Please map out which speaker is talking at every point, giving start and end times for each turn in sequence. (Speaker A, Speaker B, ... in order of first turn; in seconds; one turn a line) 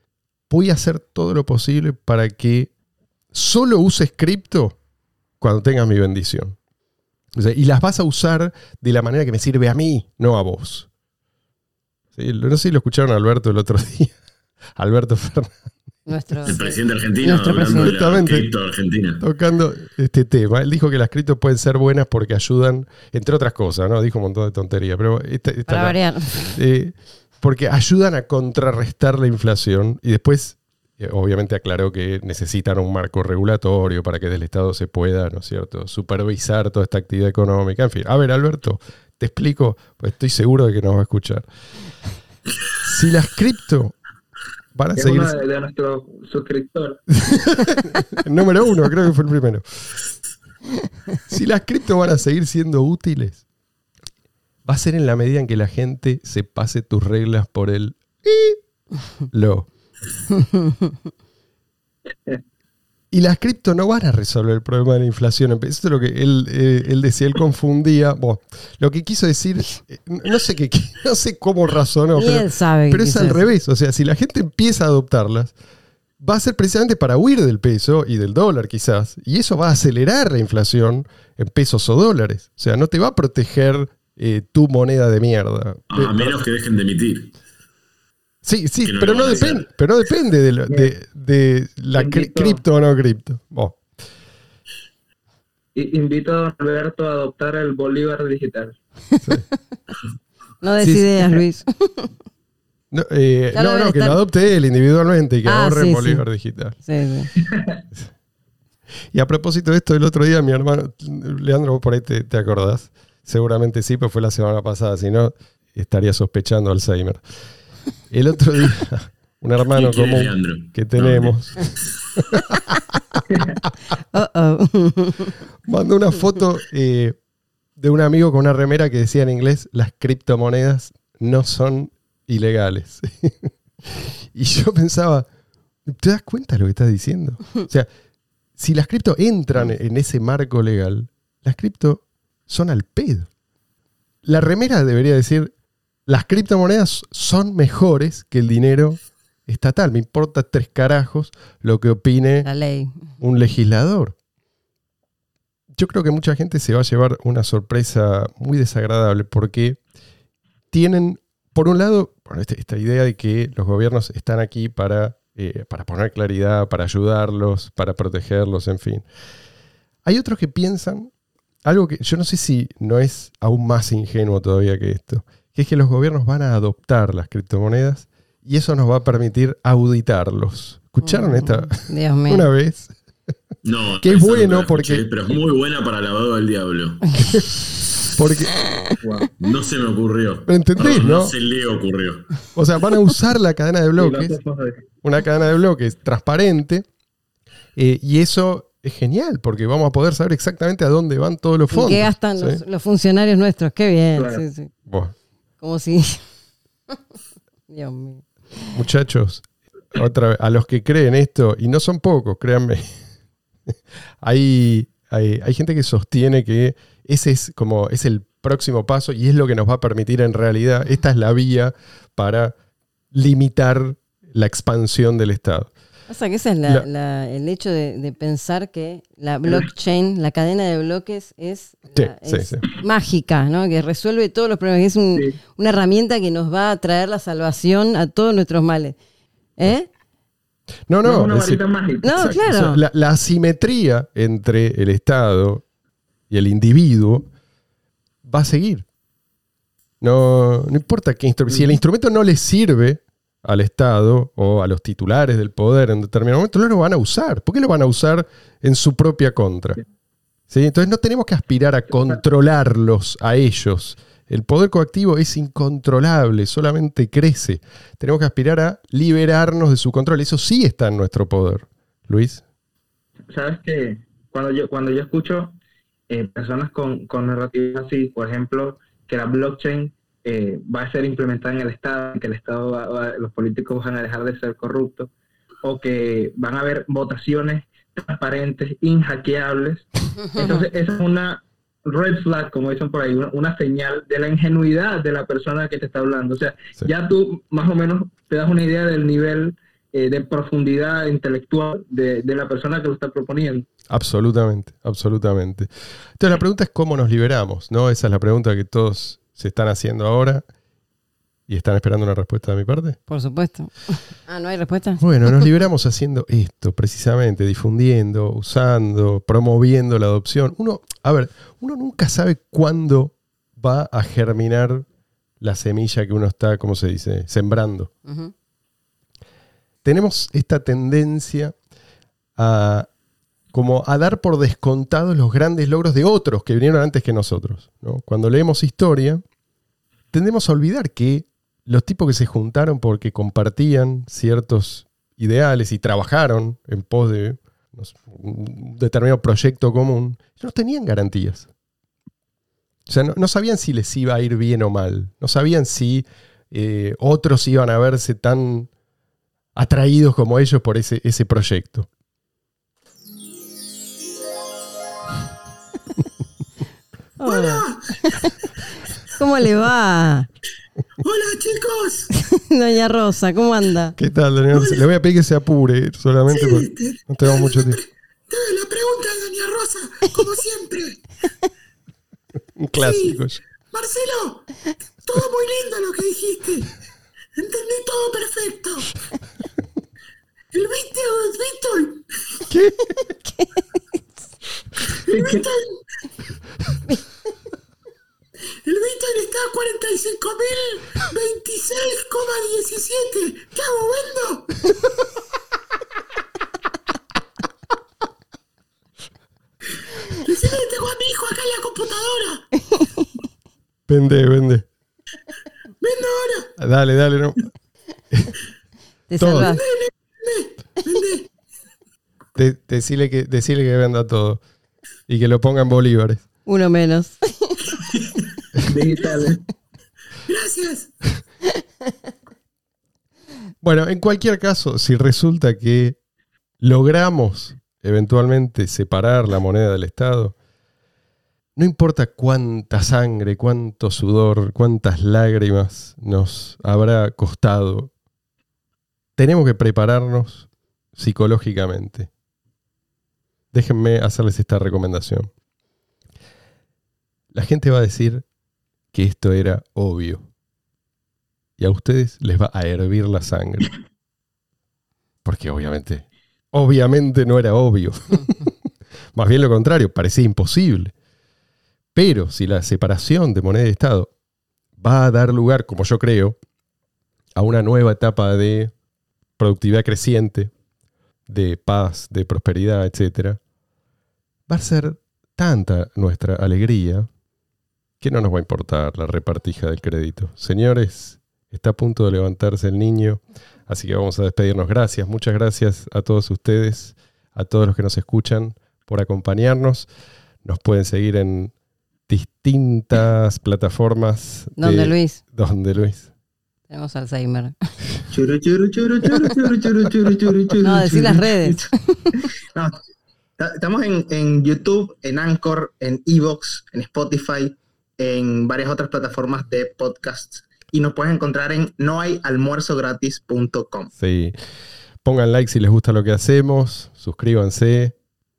Speaker A: 0.5-2.7
Speaker A: 3.3-4.8
Speaker A: 5.4-6.6
Speaker A: 7.3-10.9
Speaker A: 12.2-14.2
Speaker A: 14.8-15.6
Speaker B: 16.1-17.9
Speaker C: 16.5-19.2
Speaker A: 17.6-18.5
Speaker A: 19.2-41.5
Speaker B: 25.7-26.6
Speaker A: 42.8-44.0
Speaker A: 44.8-45.4
Speaker D: 45.0-47.0
Speaker A: 47.2-49.9
Speaker A: 51.3-53.4
Speaker A: 54.6-58.6
Speaker A: 59.3-59.7
Speaker A: 63.1-75.5
Speaker B: 72.2-73.4
Speaker A: 76.2-86.4
Speaker C: 85.9-87.3
Speaker A: 88.4-93.8
Speaker C: 88.8-89.7
Speaker D: 92.0-92.6
Speaker D: 95.8-98.8
Speaker B: 100.6-102.1
Speaker A: 100.8-101.4
Speaker A: 102.9-106.8
Speaker B: 103.5-104.2
Speaker B: 105.5-106.2
Speaker B: 106.8-107.3
Speaker A: 109.1-117.2
Speaker A: 118.1-123.5
Speaker C: 119.7-121.8
Speaker B: 124.1-125.4
Speaker A: 125.7-127.2
Speaker A: 127.8-135.3
Speaker A: 135.9-137.9
Speaker A: 138.6-143.3
Speaker A: 144.2-145.5
Speaker A: 146.1-152.5
Speaker B: 152.4-153.0
Speaker A: 153.2-154.2
Speaker A: 155.7-159.8
Speaker A: 160.7-169.1
Speaker A: 170.1-171.1
Speaker A: 171.7-182.9
Speaker B: 181.0-182.5
Speaker C: 183.6-187.2
Speaker A: 184.0-185.0
Speaker A: 188.2-188.6
Speaker D: 189.0-189.3
Speaker C: 189.4-192.3
Speaker A: 190.5-191.3
Speaker A: 192.6-194.4
Speaker D: 194.0-194.9
Speaker A: 195.0-196.9
Speaker A: 197.8-202.6
Speaker B: 201.7-204.7
Speaker D: 204.2-204.4
Speaker A: 204.9-205.2
Speaker B: 205.6-206.3
Speaker B: 207.7-208.8
Speaker A: 208.7-213.0
Speaker A: 214.2-222.5
Speaker A: 223.1-225.7
Speaker B: 226.1-239.0
Speaker A: 231.9-232.7
Speaker B: 239.6-239.9
Speaker A: 240.9-245.6
Speaker D: 241.0-242.2
Speaker B: 242.0-242.8
Speaker A: 246.3-247.3
Speaker A: 248.2-248.9
Speaker A: 250.0-259.8
Speaker A: 260.5-272.4
Speaker D: 273.3-275.6
Speaker D: 276.1-285.1
Speaker D: 285.6-303.7
Speaker A: 303.9-310.4
Speaker A: 311.5-313.0
Speaker B: 313.1-315.0
Speaker A: 315.0-324.9
Speaker A: 325.4-327.9
Speaker B: 328.1-328.3
Speaker A: 329.9-331.6
Speaker A: 332.4-332.9
Speaker A: 333.5-339.2
Speaker A: 340.1-351.5
Speaker A: 352.9-358.7
Speaker A: 359.6-361.9
Speaker B: 367.2-368.4
Speaker C: 367.3-367.7
Speaker B: 369.1-370.3
Speaker C: 371.1-372.0
Speaker B: 372.2-374.0
Speaker A: 374.0-377.8
Speaker C: 376.5-377.7
Speaker C: 378.4-380.8
Speaker A: 382.6-383.4
Speaker C: 382.8-383.1
Speaker C: 383.8-384.4
Speaker C: 385.1-386.6
Speaker C: 387.4-388.8
Speaker C: 390.5-392.0
Speaker A: 392.5-392.9
Speaker B: 393.0-393.6
Speaker D: 395.1-395.5
Speaker C: 395.1-395.6
Speaker C: 398.7-404.4
Speaker C: 410.3-412.2
Speaker B: 412.7-413.0
Speaker A: 413.9-414.7
Speaker C: 415.9-416.4
Speaker A: 416.6-417.5
Speaker B: 419.1-419.6
Speaker A: 419.2-419.5
Speaker C: 420.9-421.2
Speaker A: 422.4-424.4
Speaker A: 425.1-426.2
Speaker B: 426.5-427.8
Speaker D: 428.6-429.4
Speaker C: 430.3-430.9
Speaker A: 433.6-436.0
Speaker A: 436.6-440.4
Speaker A: 441.6-447.9
Speaker A: 449.2-452.1
Speaker A: 453.5-455.3
Speaker A: 457.3-458.2
Speaker A: 458.9-460.2
Speaker A: 461.6-463.7
Speaker A: 465.2-468.5
Speaker A: 469.1-470.9
Speaker A: 471.9-474.1
Speaker A: 474.8-476.4
Speaker A: 477.4-478.7
Speaker A: 479.4-480.5
Speaker A: 481.3-483.4
Speaker A: 484.5-487.1
Speaker A: 488.0-499.9
Speaker A: 500.4-501.5
Speaker A: 502.1-506.1
Speaker B: 504.6-505.2
Speaker B: 506.7-507.5
Speaker E: 508.1-511.7
Speaker B: 510.6-512.1
Speaker E: 512.5-512.8
Speaker E: 513.4-523.9
Speaker A: 524.0-524.4
Speaker A: 525.0-528.0